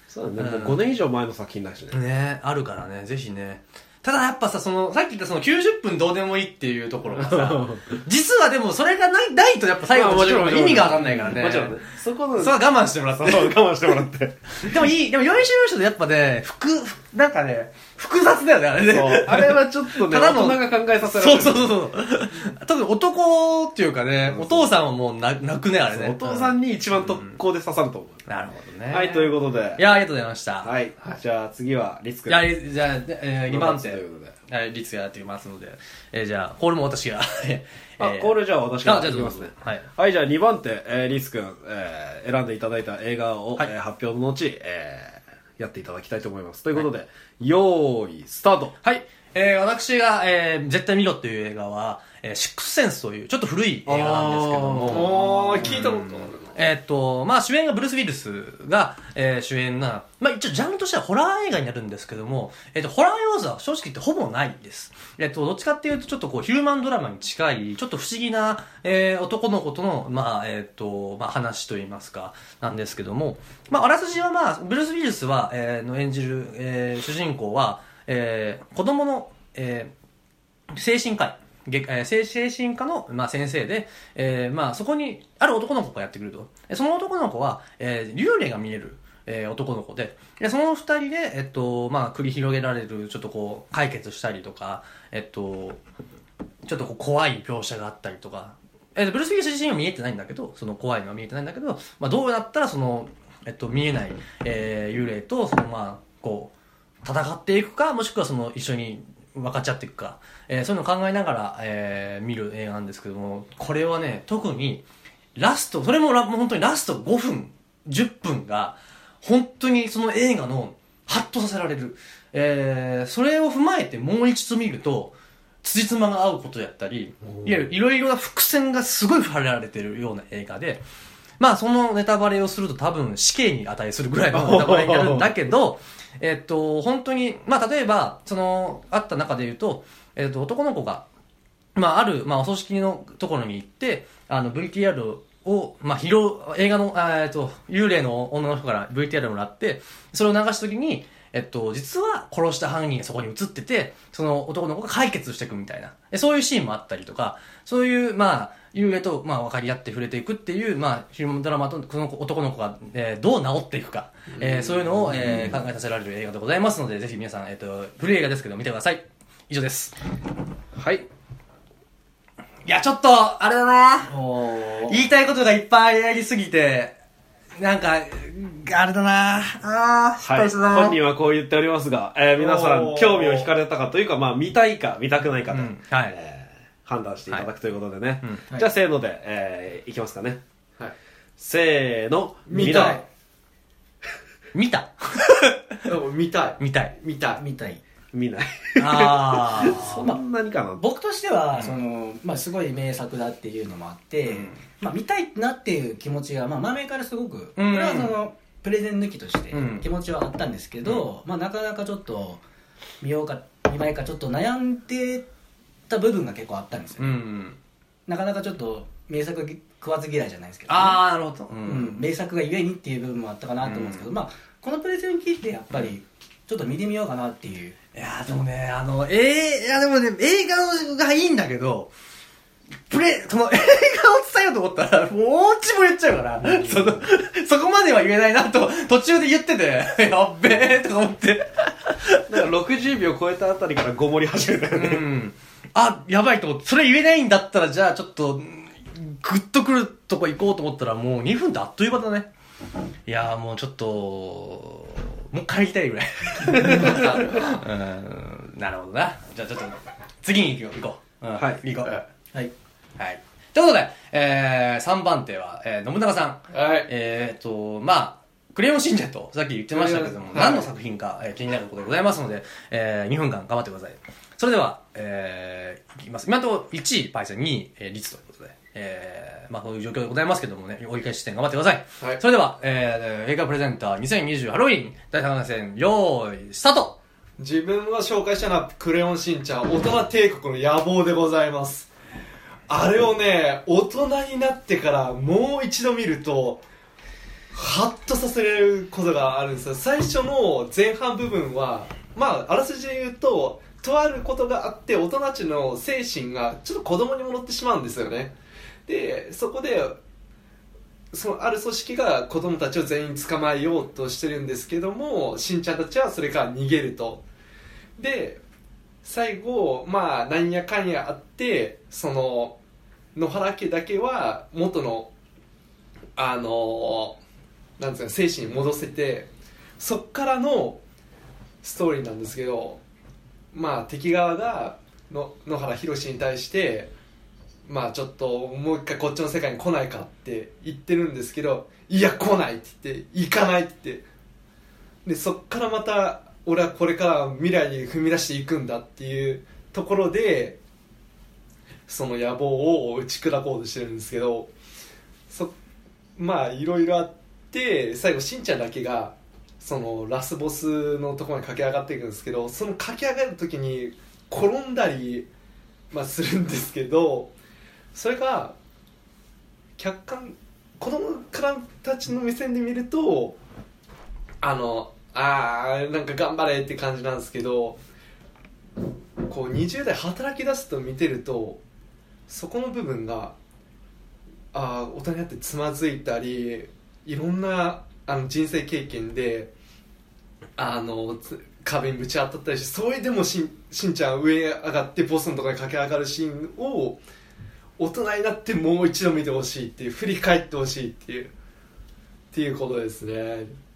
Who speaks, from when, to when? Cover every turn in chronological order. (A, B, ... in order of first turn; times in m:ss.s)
0:00.1-0:02.0 A
0:00.4-0:00.8 B
0:01.9-0:11.8 B
0:07.1-0:07.8 A
0:09.9-0:14.7 A
0:12.4-0:13.6 B
0:14.6-0:27.4 B
0:18.9-0:21.7 A
0:24.2-0:24.7 A
0:25.9-0:28.2 A
0:28.3-0:30.7 B
0:28.9-0:29.9 A
0:30.6-0:32.5 A
0:32.3-0:39.8 B
0:33.5-0:34.4 A
0:38.0-0:48.8 A
0:48.8-1:19.9 B
0:53.9-0:55.8 A
0:54.9-0:56.5 C
1:20.7-1:35.8 B
1:36.6-2:10.8 B
2:07.3-2:07.6 A
2:11.4-2:21.0 B
2:14.3-2:15.3 A
2:21.8-2:49.9 B
2:44.4-2:44.9 C
2:45.0-2:45.5 A
2:50.8-2:51.0 A
2:52.6-2:57.0 B
2:54.1-2:55.0 D
2:57.6-3:01.0 B
3:00.2-3:10.4 A
3:02.4-3:03.5 C
3:05.5-3:06.2 B
3:11.4-3:13.0 A
3:12.5-3:13.0 C
3:12.5-3:13.0 D
3:14.5-3:15.8 B
3:15.8-3:17.4 C
3:16.6-3:16.9 B
3:17.4-3:17.8 D
3:18.1-3:20.8 A
3:18.8-3:20.0 B
3:20.8-3:32.4 D
3:24.3-3:24.6 B
3:27.6-3:28.2 B
3:29.5-3:29.9 B
3:33.0-3:35.3 D
3:35.9-3:37.2 D
3:37.0-3:37.6 B
3:38.1-3:41.0 D
3:40.7-3:42.0 B
3:41.6-3:47.8 D
3:43.6-3:44.1 B
3:47.9-3:51.9 B
3:52.9-4:02.2 B
3:56.4-3:57.0 A
4:02.3-4:05.1 A
4:04.7-4:12.3 B
4:13.1-4:22.0 B
4:16.6-4:16.9 A
4:16.9-4:17.4 C
4:21.4-4:21.6 A
4:23.0-4:47.0 B
4:26.5-4:26.9 C
4:29.7-4:30.7 C
4:47.4-4:51.9 C
4:52.7-4:56.6 C
4:57.5-5:08.3 C
5:08.9-5:10.0 C
5:11.1-5:17.2 C
5:18.0-5:18.4 C
5:19.0-5:22.6 C
5:23.1-5:25.1 C
5:26.2-5:27.2 C
5:27.8-5:30.8 C
5:31.6-5:32.8 C
5:33.5-5:36.9 C
5:37.6-5:44.0 C
5:45.0-5:50.6 C
5:51.9-5:54.5 C
5:55.3-5:55.5 C
5:56.2-6:05.3 C
6:05.9-6:07.3 C
6:07.9-6:08.6 C
6:09.8-6:13.4 C
6:14.4-6:17.8 C
6:19.2-6:21.6 C
6:22.3-6:23.4 C
6:24.5-6:29.5 C
6:30.6-6:37.0 C
6:37.8-6:41.3 C
6:42.3-6:43.5 C